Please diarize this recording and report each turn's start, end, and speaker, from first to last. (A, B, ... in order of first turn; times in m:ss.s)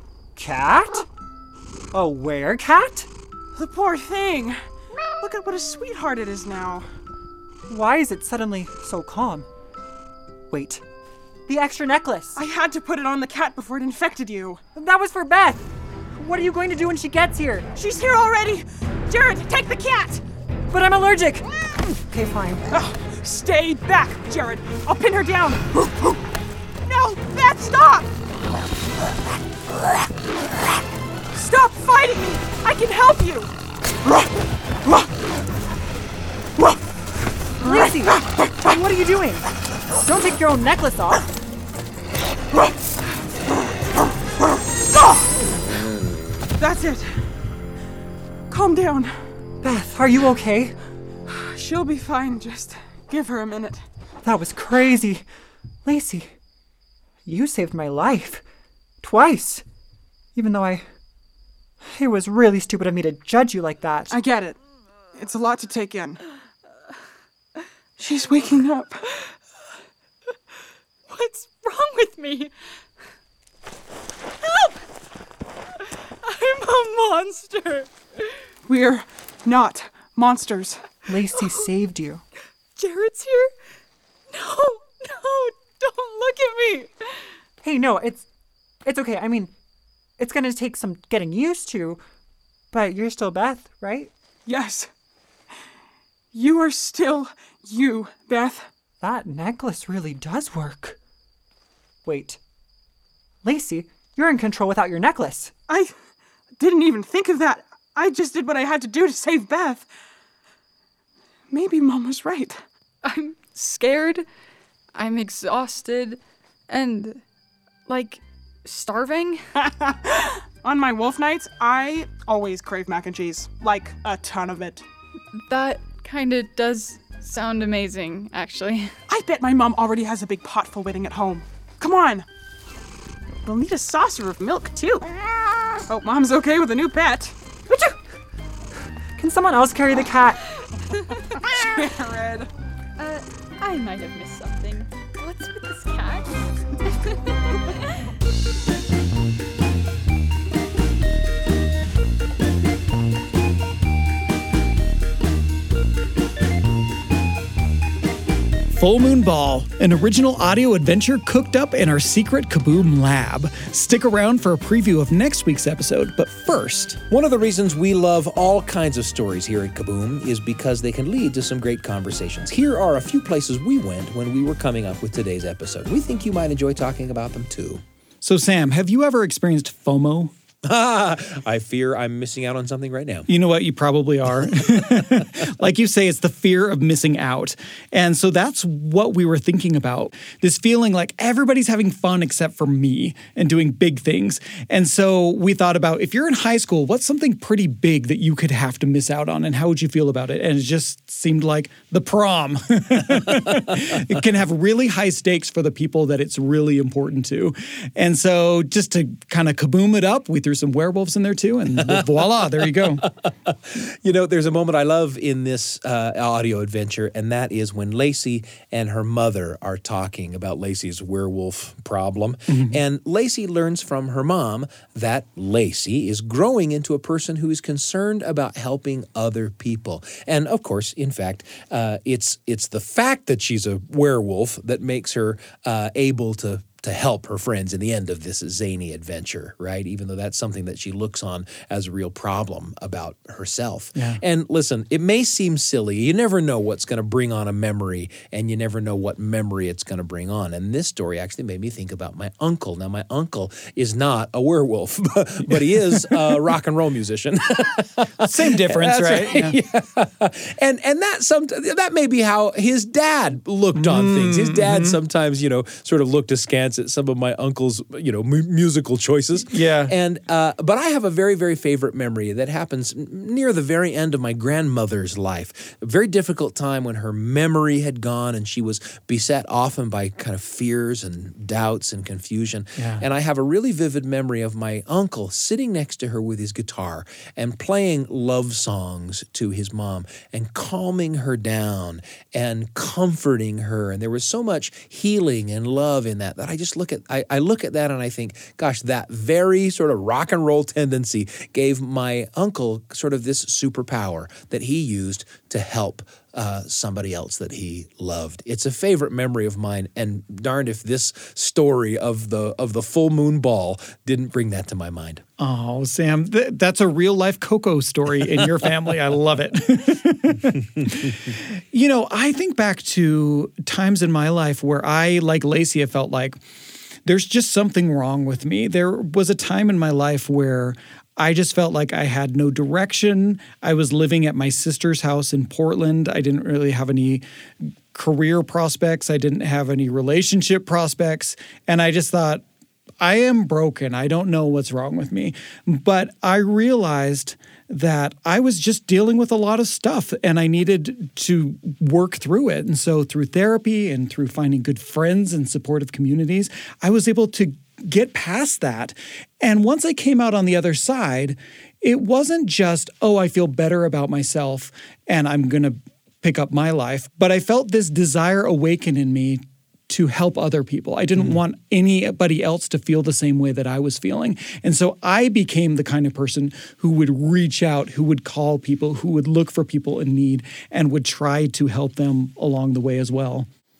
0:00.4-0:01.1 A
0:01.9-0:03.1 A
0:03.5-0:04.6 B
0:05.2-0:06.9 B
0:07.7-0:09.5 A
0:10.5-0:10.8 A
0:11.5-0:12.4 A
0:12.4-0:14.6 B
0:14.7-0:15.6 A
0:16.2-0:17.7 A
0:17.7-0:20.2 B
0:20.7-0:22.7 A
0:22.7-0:26.2 B
0:26.8-0:28.1 B
0:31.3-0:33.5 B
0:37.6-0:38.2 B
0:37.6-0:39.5 A
0:40.0-0:41.3 A
0:46.6-0:47.2 B
0:48.5-0:49.2 B
0:49.6-0:50.8 A
0:51.3-0:53.8 B
0:54.2-0:55.3 A
0:55.8-0:56.3 A
0:57.2-0:58.4 A
0:59.0-0:59.6 A
1:00.3-1:00.9 A
1:01.8-1:04.2 A
1:04.1-1:04.6 B
1:05.1-1:06.2 B
1:08.0-1:09.1 B
1:11.1-1:12.5 C
1:14.4-1:14.8 C
1:16.0-1:18.4 C
1:18.7-1:20.9 B
1:21.1-1:22.2 A
1:22.8-1:23.5 C
1:24.3-1:26.9 C
1:27.6-1:28.3 A
1:28.8-1:29.5 A
1:30.2-1:32.0 A
1:32.7-1:34.1 A
1:34.4-1:34.9 B
1:36.3-1:38.7 B
1:39.0-1:41.0 A
1:42.0-1:42.4 A
1:43.4-1:45.5 A
1:46.6-1:49.9 B
1:51.5-1:52.6 B
1:53.0-1:54.2 C
1:54.9-1:57.2 C
1:57.9-1:59.4 C
1:59.6-2:04.8 B
2:05.4-2:09.0 C
2:09.1-2:12.2 B
2:13.4-2:15.0 B
2:15.9-2:17.4 B
2:19.2-2:20.4 A
2:20.9-2:21.3 C
2:21.4-2:22.5 B
2:23.0-2:28.1 C
2:38.7-2:47.0 D
2:47.1-2:57.8 E
2:58.2-3:00.3 D
3:00.6-3:03.3 E
3:03.3-3:33.0 D
3:04.6-3:05.0 E
3:31.8-5:15.2 E
3:42.5-3:42.8 D
4:15.5-4:16.5 D
4:18.2-4:19.6 D
4:23.7-4:25.0 D
4:29.5-4:29.9 D
4:42.8-4:43.0 D
5:15.4-5:26.4 D
5:27.0-5:37.2 D
5:37.9-5:42.4 D
5:43.0-6:23.5 D